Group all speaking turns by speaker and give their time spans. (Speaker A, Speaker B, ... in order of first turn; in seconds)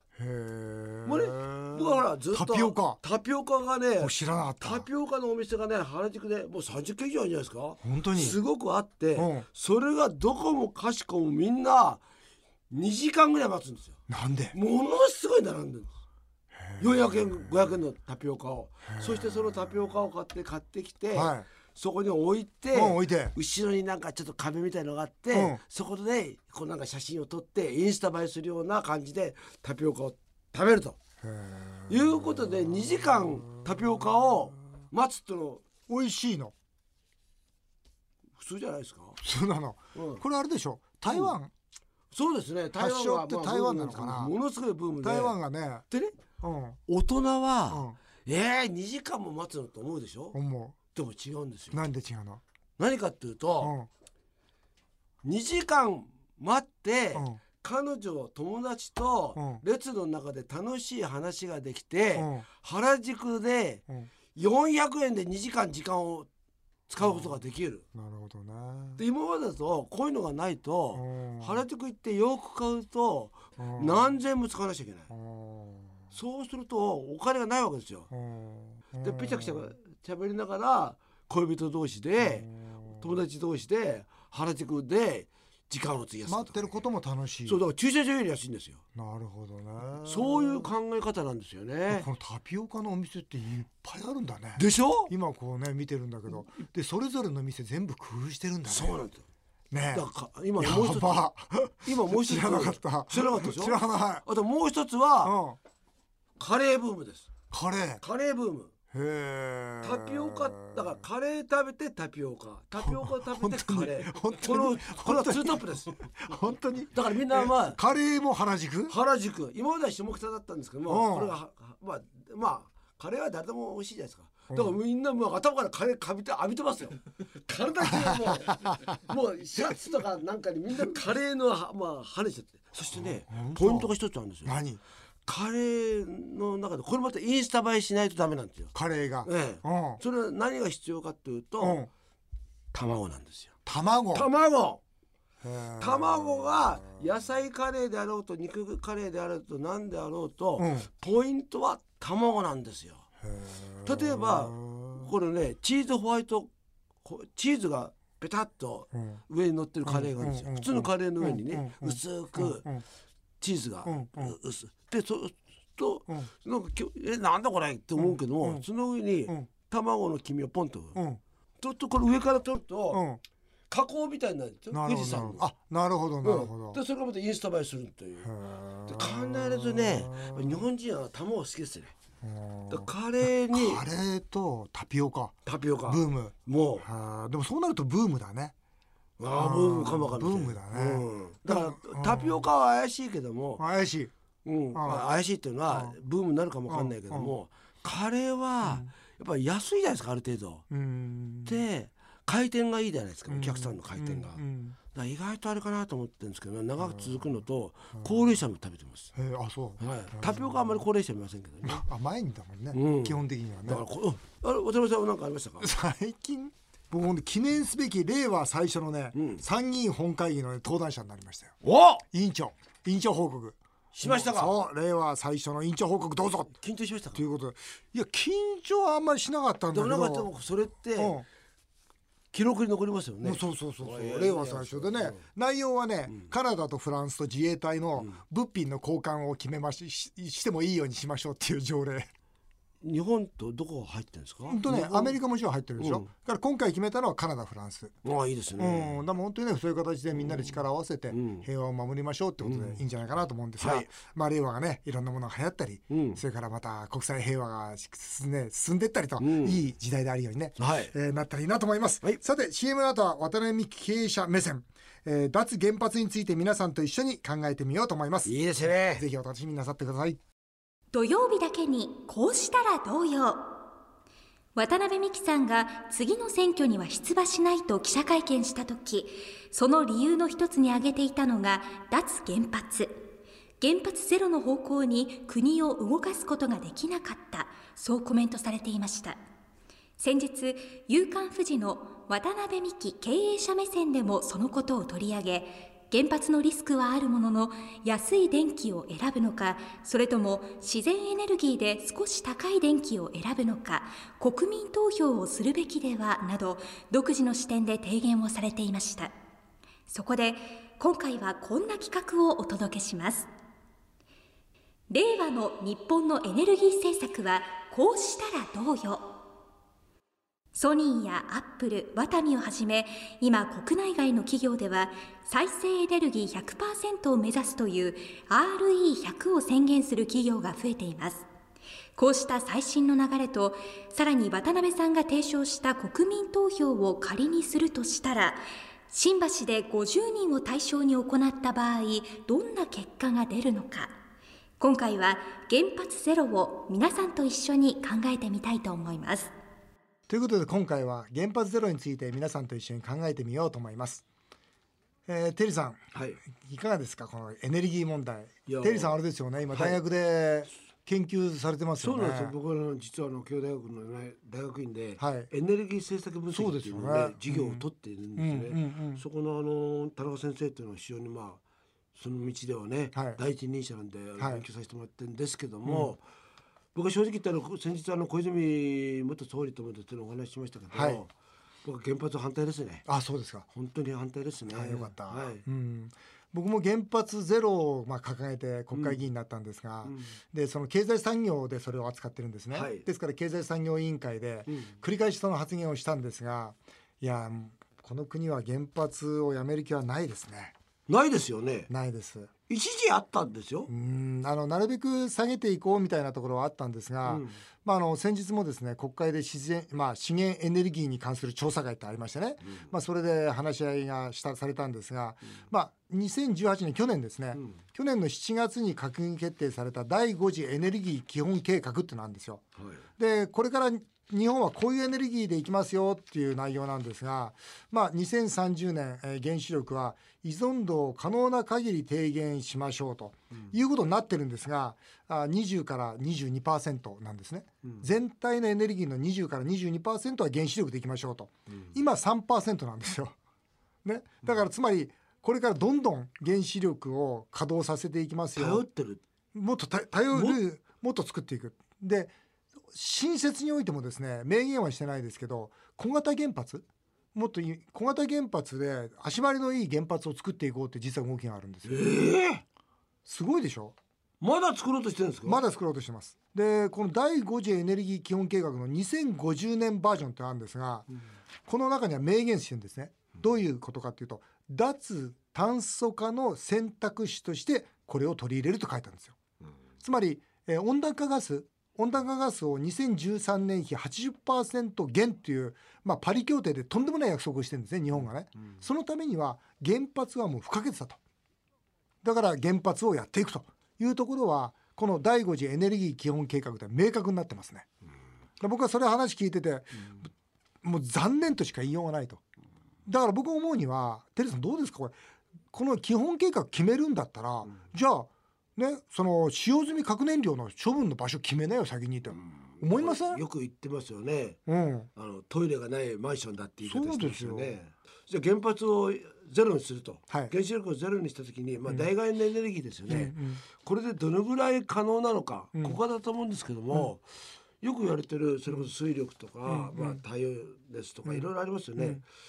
Speaker A: 0.2-3.0, 4.0-4.9, 7.8-8.4, 9.2-9.5, 14.1-14.6, 16.6-17.5, 18.9-19.7, 21.1-21.5, 22.7-23.4, 25.3-25.6, 31.2-34.0, 35.9-36.5, 39.2-41.5, 42.8-44.3, 45.0-45.9, 46.4-46.8, 47.7-48.0, 50.3-50.8, 51.7-52.4, 53.6-53.9, 57.1-57.4, 59.4-59.6, 62.2-62.5, 67.0-67.3, 67.9-69.0, 71.0-71.6, 73.6-74.2, 75.1-76.1, 78.1-79.7, 82.2-83.2, 86.3-87.6, 89.0-90.7, 91.9-99.0, 99.7-100.1, 100.6-104.2, 105.2-105.6, 107.5-108.0, 108.9-111.0, 112.8-119.0, 120.9-121.4, 124.5-124.8, 127.9-128.8, 132.9-133.9, 134.4-134.8, 138.7-140.0, 141.6-141.9, 143.7-144.3, 145.4-147.0, 150.6-150.9, 153.2-155.1, 158.9-159.2, 159.8-162.8, 163.8-164.3, 168.0-168.7, 170.9-171.2, 172.9-173.2, 174.7-176.8, 178.2-180.7, 182.2-185.3, 185.9-188.5, 189.3-192.5, 193.6-194.1, 194.7-195.1, 195.7-196.0, 196.7-197.3, 198.6-198.9, 200.7-201.6, 203.3-204.8, 206.8-207.4, 207.9-208.3, 209.2-210.8, 211.7-213.8, 215.6-221.6, 222.1-226.6, 227.1-230.3, 231.0-231.3, 233.2-242.1, 244.5-248.0, 248.6-268.4, 268.9-270.2, 350.1-354.0, 355.1-362.3, 365.0-365.3, 366.3-367.6, 368.2-369.0, 372.9-373.2, 374.2-374.4, 375.7-375.9, 380.7-381.0, 382.9-383.5, 384.5-400.6, 401.7-402.3, 403.7-422.4, 423.0-443.1, 443.8-448.6, 449.3-452.1, 452.7-461.9, 463.1-463.8, 465.3-470.9, 471.5-479.1, 479.8-491.0, 492.0-497.7, 498.4-500.1, 500.6-502.2, 502.9-504.9, 505.5-513.2, 514.5-514.9, 516.6-517.6, 522.9-523.4, 529.5-530.0, 531.1-532.0
Speaker B: 1.1-12.0, 12.7-14.0, 14.5-15.9, 16.8-31.0, 31.9-35.6, 38.4-39.2, 40.0-40.2, 41.1-41.3, 42.1-45.4, 45.9-46.2, 46.9-50.4, 50.9-51.8, 52.8-53.7, 55.2-63.8, 64.3-66.3, 66.9-67.8, 69.0-75.1, 76.1-78.1, 79.0-86.8, 87.5-88.8, 90.0-92.1, 94.6-95.1, 98.7-99.2, 99.9-101.3, 101.8-105.3, 106.4-107.3, 108.0-108.7, 109.8-116.0, 116.9-117.8, 118.9-134.6, 135.3-138.7, 139.2-141.8, 142.7-143.5, 144.1-144.8, 145.8-153.0, 153.8-156.5, 157.0-162.7, 163.4-171.0, 171.6-173.0, 173.7-175.5, 176.2-178.3, 178.9-181.9, 182.7-183.8, 185.5-186.9, 189.2-193.6, 194.4-200.7, 201.4-209.1, 209.8-211.9, 212.7-215.7, 219.1-219.4, 221.6-222.1, 223.9-224.6, 226.6-227.2, 229.7-231.2, 232.3-235.2, 242.8-245.2, 245.8-246.1, 248.0-249.0, 250.1-250.6, 251.1-251.5, 252.4-252.8, 253.6-253.9, 255.9-256.2, 259.2-259.6, 260.6-260.9, 268.2-269.1, 355.9-356.2, 358.5-358.9, 359.5-359.8, 361.8-371.4, 371.9-376.0, 376.8-381.1, 381.6-382.9, 383.5-385.4, 388.7-389.0, 389.9-390.1, 392.5-392.9, 394.5-394.8, 400.9-401.7, 402.5-403.7, 407.1-407.4, 422.6-422.8, 448.4-449.0, 450.1-450.4, 461.6-462.4, 464.2-465.4, 512.1-514.4, 515.0-527.0, 527.6-532.0
Speaker C: 270.9-273.5, 274.6-283.0, 283.6-289.2, 290.0-309.1, 309.9-313.3, 314.9-319.1, 320.5-331.3, 332.0-343.9, 344.6-349.3